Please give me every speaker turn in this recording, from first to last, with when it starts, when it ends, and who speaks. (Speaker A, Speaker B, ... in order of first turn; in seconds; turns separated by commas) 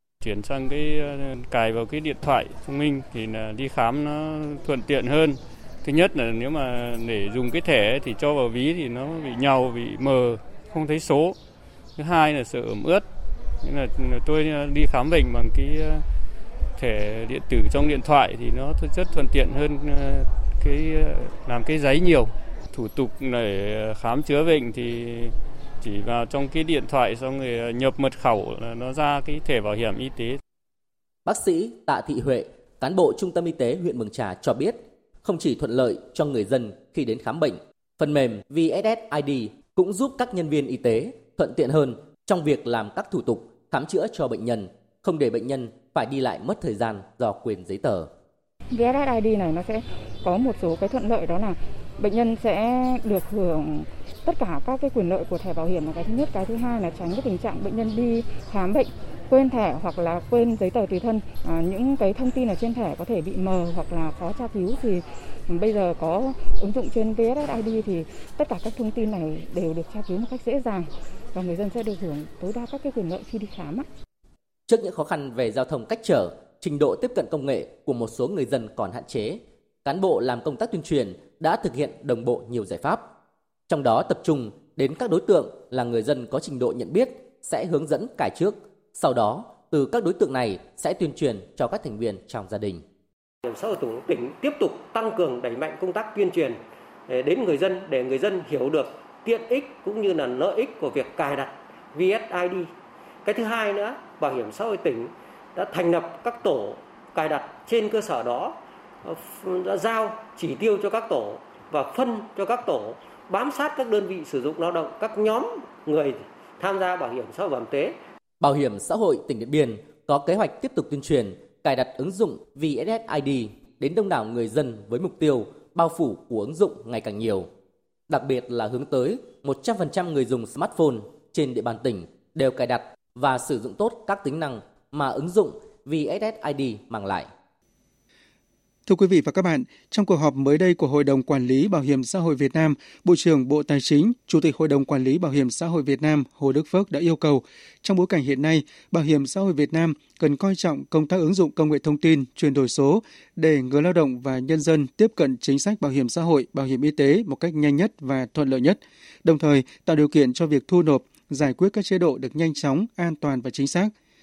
Speaker A: 0.2-11.3, Speaker A: 12.0-13.0, Speaker A: 13.6-16.0, Speaker A: 16.8-30.4, Speaker B: 31.2-48.1, Speaker C: 48.7-73.8, Speaker B: 74.7-83.0, Speaker B: 83.7-92.8, Speaker D: 93.4-102.7, Speaker D: 103.2-118.0, Speaker B: 118.4-127.5, Speaker B: 128.1-137.3, Speaker E: 138.8-163.9